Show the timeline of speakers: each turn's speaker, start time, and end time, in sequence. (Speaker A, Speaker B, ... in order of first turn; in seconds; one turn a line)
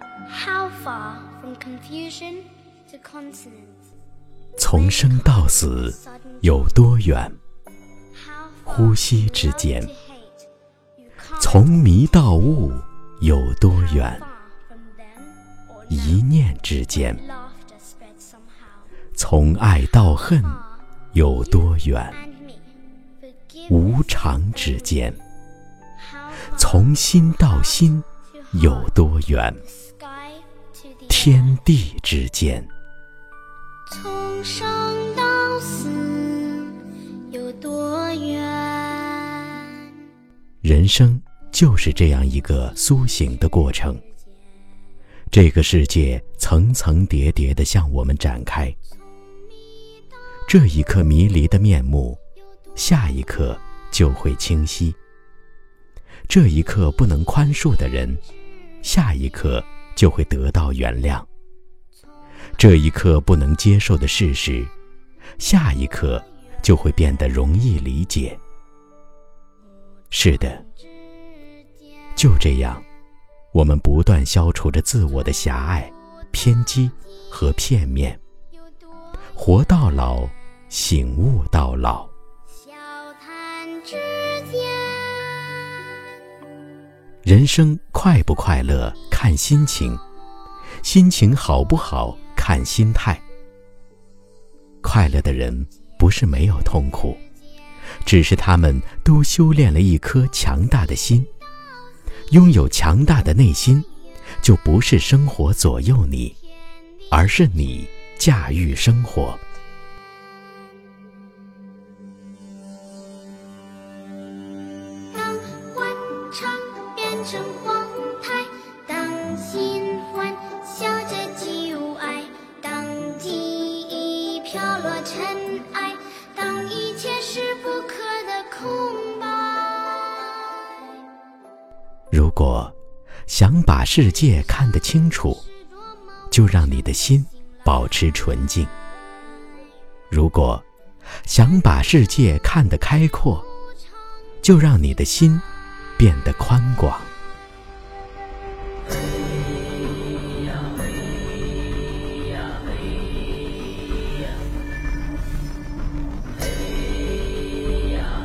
Speaker A: 0.3-3.8
Speaker B: 4.6-7.4
Speaker A: 4.7-6.4
Speaker A: 8.2-10.5
Speaker B: 8.7-9.9
Speaker A: 11.0-11.8
Speaker B: 11.4-14.2
Speaker A: 13.9-16.2
Speaker B: 15.9-17.2
Speaker A: 17.1-18.9
Speaker B: 19.1-22.2
Speaker A: 20.6-20.9
Speaker A: 22.1-23.9
Speaker B: 23.7-25.2
Speaker A: 26.0-26.9
Speaker B: 26.5-29.6
Speaker A: 28.4-28.9
Speaker A: 29.7-31.6
Speaker B: 31.1-32.7
Speaker A: 33.9-40.1
Speaker B: 40.6-44.0
Speaker B: 45.3-48.8
Speaker A: 49.7-50.0
Speaker B: 50.5-52.2
Speaker B: 52.8-55.0
Speaker B: 56.3-58.2
Speaker B: 58.8-61.3
Speaker B: 62.6-64.7
Speaker B: 65.4-68.4
Speaker B: 70.1-70.6
Speaker B: 72.2-72.8
Speaker B: 73.5-78.2
Speaker B: 79.3-82.1
Speaker A: 82.5-86.2
Speaker B: 87.2-90.0
Speaker B: 90.8-93.2
Speaker B: 94.8-97.2
Speaker B: 98.0-101.3
Speaker B: 102.3-103.9
Speaker B: 104.4-106.4
Speaker B: 107.1-109.4
Speaker A: 115.1-130.7
Speaker B: 132.1-132.8
Speaker B: 133.3-135.4
Speaker B: 136.3-138.7
Speaker B: 140.1-140.6
Speaker B: 141.3-143.5
Speaker B: 144.4-145.4
Speaker B: 146.0-147.1